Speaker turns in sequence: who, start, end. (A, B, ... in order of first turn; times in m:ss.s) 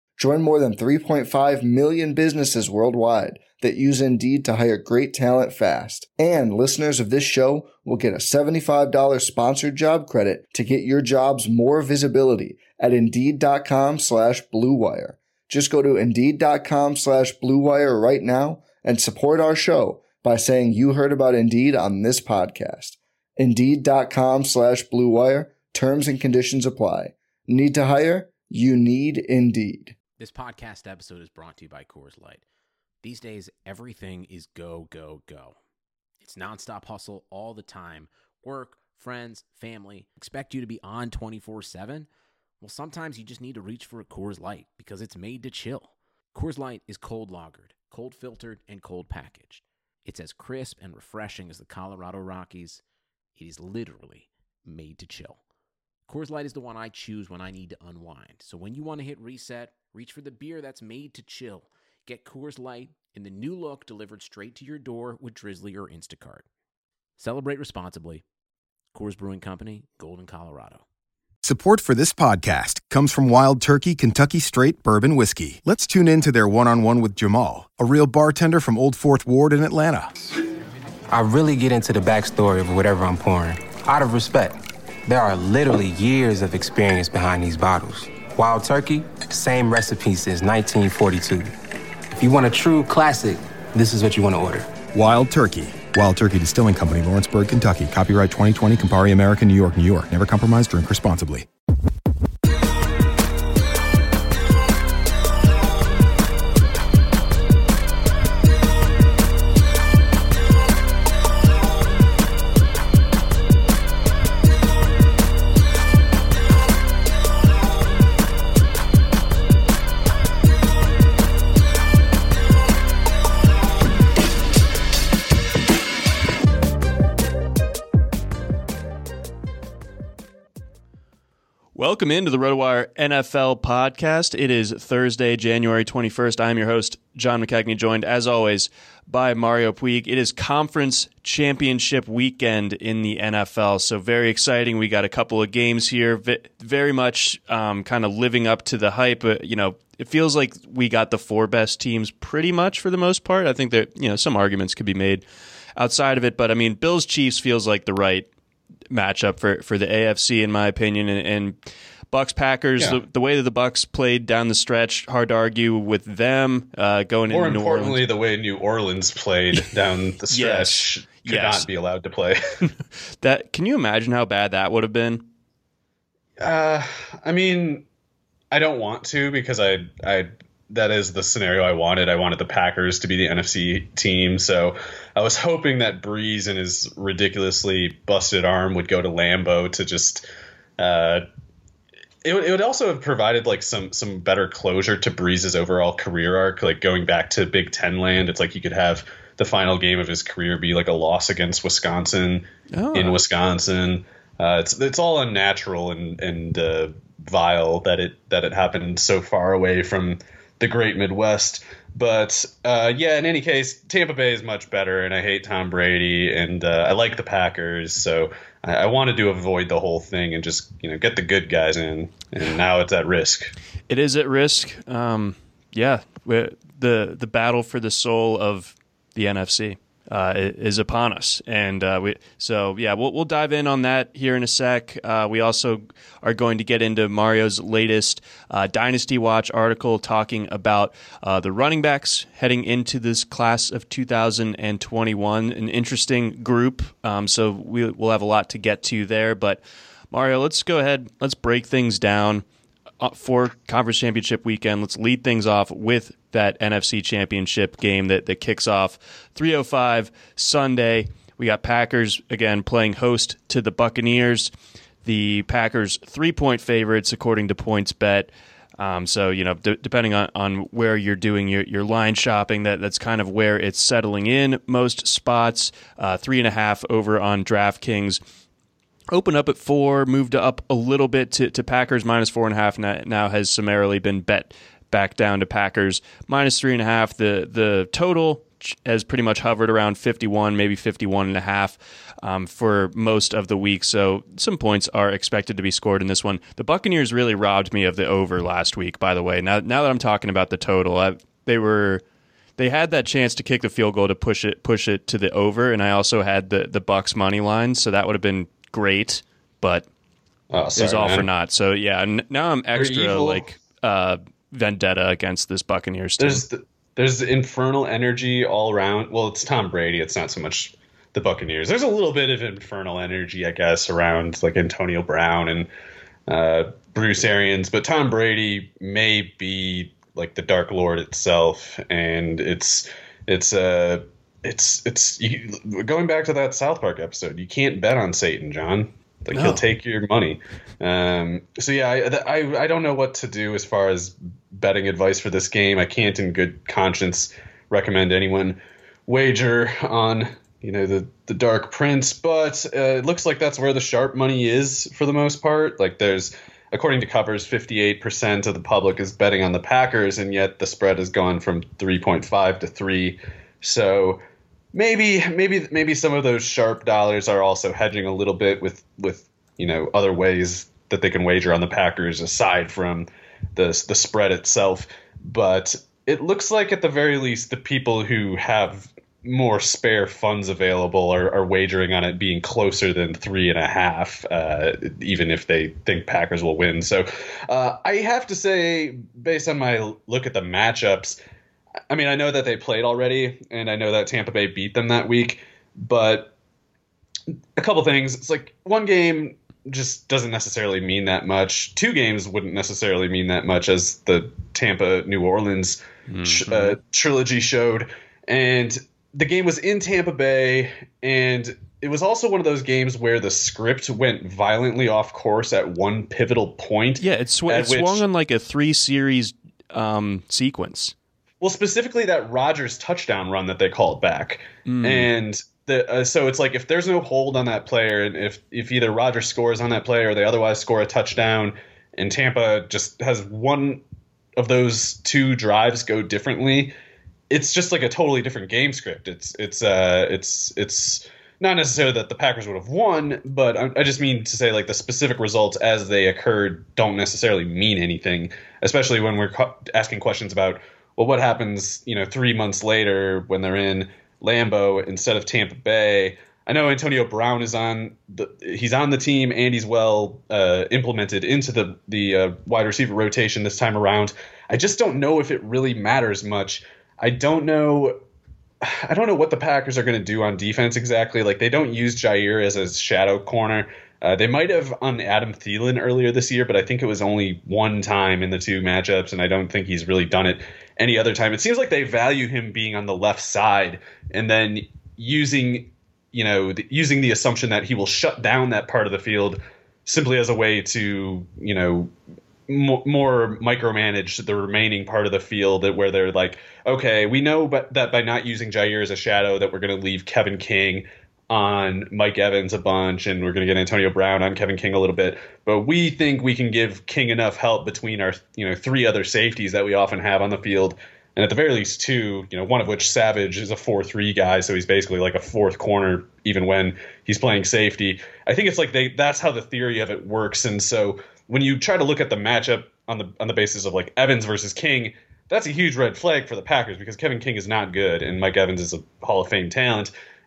0:00.2-0:30.0 A
0:30.2-0:32.4 B
0:33.0-0:35.6 B
0:36.2-0:42.1 B
0:42.6-0:52.8 B
0:53.4-0:55.4 B
0:56.1-1:06.5 B
1:07.2-1:08.2 B
1:08.9-1:10.8 B
1:11.4-1:20.2 C
1:21.1-1:31.5 D
1:32.2-1:34.7 D
1:34.9-1:41.5 C
2:11.8-2:35.2 E
2:35.8-2:38.3 E
2:38.9-2:41.6 E
2:42.1-2:48.0 E
2:47.3-2:52.4 F
2:50.3-2:51.7 E
2:53.2-2:55.3 E
2:56.4-2:57.8 F
2:58.5-3:10.2 F
3:10.8-3:11.2 F
3:12.2-3:43.5 F
3:22.7-3:23.2 E
3:43.9-4:12.4 E
4:13.0-4:24.5 E
4:25.0-4:38.2 E
4:39.1-5:02.0 E
5:02.6-5:09.8 E
5:10.5-5:11.3 F
5:10.8-5:16.4 E
5:12.8-5:13.5 F
5:16.2-5:25.7 F
5:26.3-6:04.2 F
5:39.3-5:39.6 E
6:04.7-6:31.2 F
6:31.9-6:36.3 F
6:37.6-6:58.0 F
6:46.1-6:46.8 E
6:57.0-7:00.9 E
7:01.4-7:13.8 F
7:04.6-7:05.1 E
7:14.4-7:16.7 F
7:17.3-7:48.0 F
7:48.6-8:11.9 F
8:12.5-8:49.9 F